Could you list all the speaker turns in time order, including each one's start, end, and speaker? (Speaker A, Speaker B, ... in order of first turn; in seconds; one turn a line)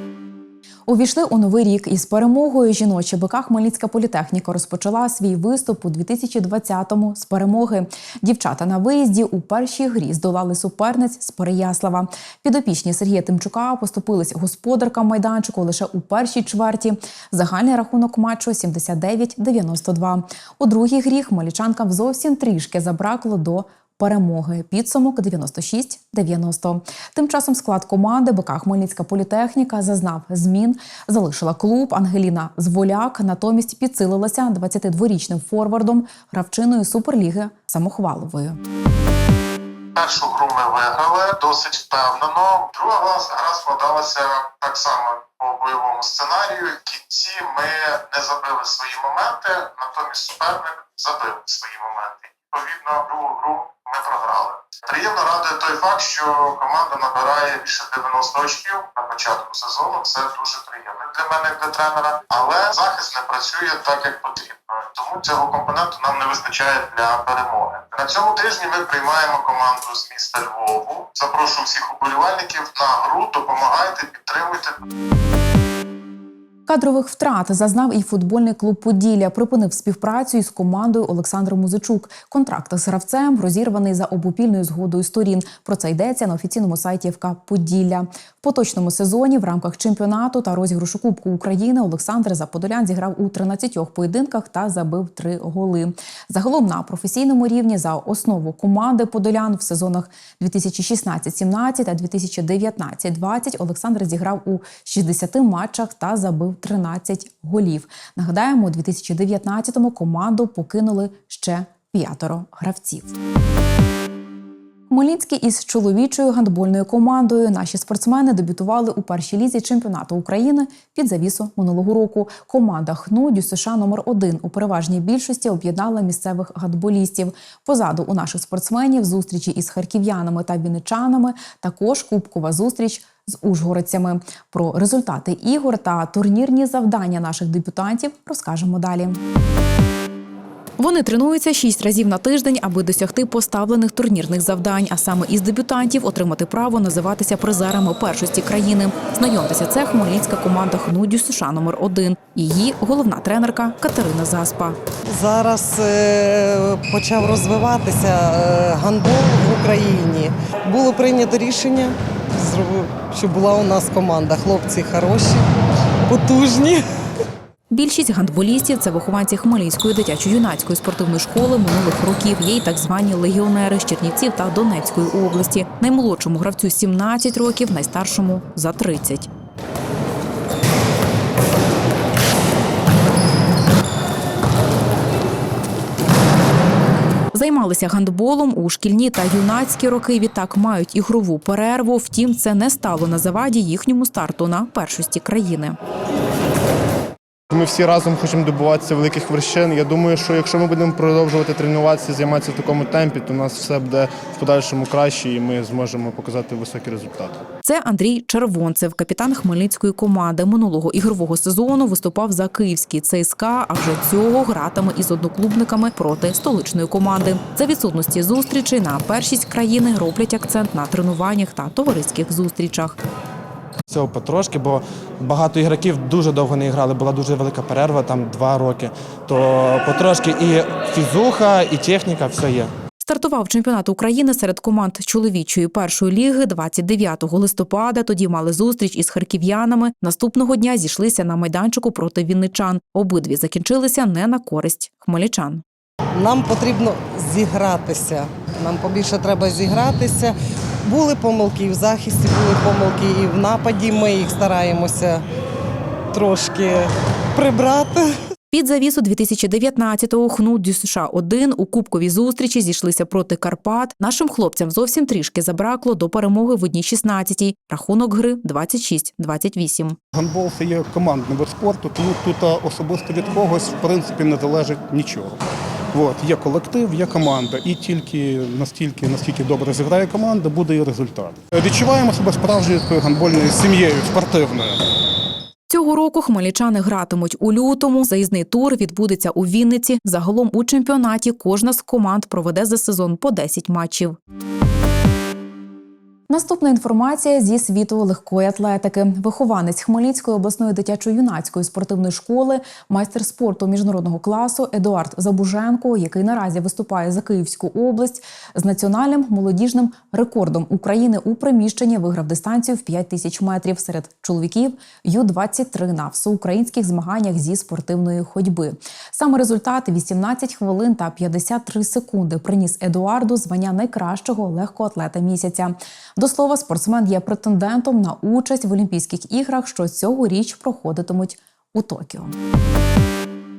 Speaker A: 0.9-38.6
Speaker B: 40.0-74.7
Speaker A: 76.7-113.1
Speaker A: 114.9-139.2
Speaker A: 140.8-154.8
Speaker C: 155.1-165.5
Speaker C: 166.1-166.8
Speaker A: 167.7-179.3
Speaker A: 187.3-195.8
Speaker D: 197.5-207.4
Speaker A: 207.6-223.0
Speaker E: 223.9-232.7
Speaker A: 233.0-245.6
Speaker C: 246.1-255.2
Speaker C: 256.1-258.1
Speaker A: 258.5-270.0
Speaker F: 270.1-275.4
Speaker F: 275.9-284.8
Speaker A: 285.7-294.2
Speaker A: 296.3-332.3